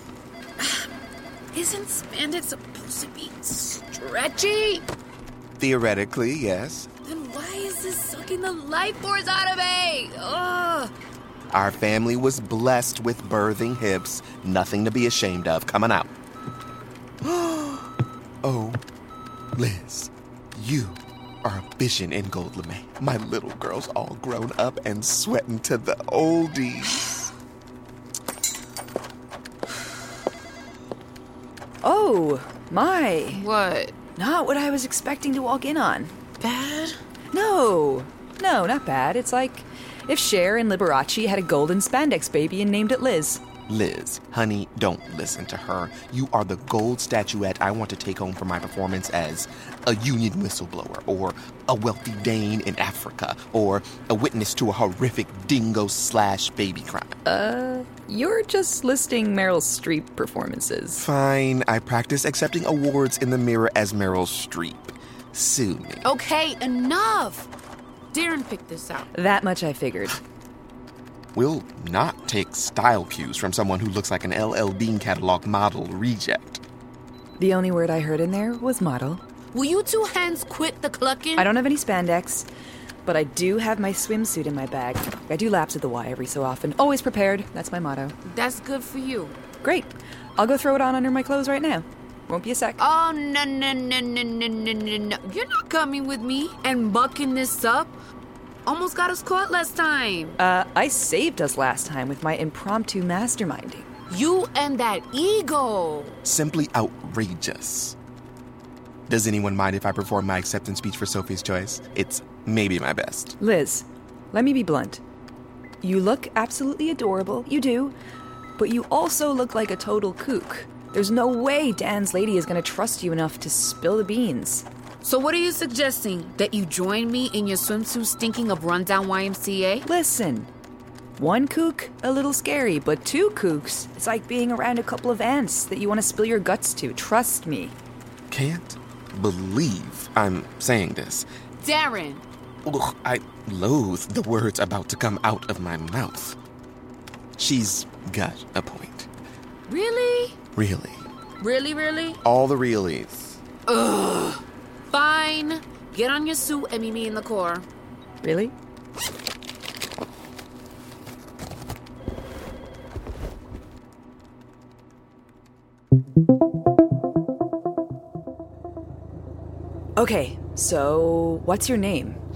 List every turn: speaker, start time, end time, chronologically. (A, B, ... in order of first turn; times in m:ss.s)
0:00.6-0:00.9 A
0:01.5-0:04.8 A
0:05.6-0:06.9 B
0:07.0-0:10.9 A
0:11.5-0:16.1 B
0:17.2-0:17.9 B
0:18.4-0:18.8 B
0:19.6-0:27.2 B
0:31.8-0:33.4 C
0:33.3-0:33.9 A
0:34.2-0:36.1 C
0:36.4-0:37.0 A
0:37.3-0:43.4 C
0:43.7-0:57.1 B
0:57.2-1:01.1 C
1:01.0-1:06.0 B
1:06.0-1:07.5 A
1:08.1-1:09.1 A
1:09.1-1:10.2 C
1:11.4-1:16.6 B
1:17.4-1:19.2 C
1:19.5-1:21.5 A
1:21.4-1:22.5 C
1:23.0-1:28.1 C
1:28.2-1:29.4 A
1:29.6-1:32.8 C
1:32.8-1:37.9 A
1:38.7-1:40.4 A
1:40.4-1:43.9 C
1:44.1-1:46.2 A
1:46.2-1:48.0 B
1:49.1-1:53.4 B
1:53.4-1:55.0 C
1:55.8-1:58.0 C
1:58.6-2:04.7 C
2:05.0-2:09.8 A
2:09.8-2:10.5 C
2:11.2-2:17.7 C
2:18.3-2:21.3 B
2:21.6-2:22.2 A
2:22.6-2:26.4 B
2:27.4-2:29.1 B
2:29.7-2:30.4 A
2:30.6-2:31.1 B
2:31.4-2:32.2 A
2:32.2-2:33.4 B
2:33.7-2:37.7 A
2:38.2-2:38.5 C
2:50.0-2:52.2 C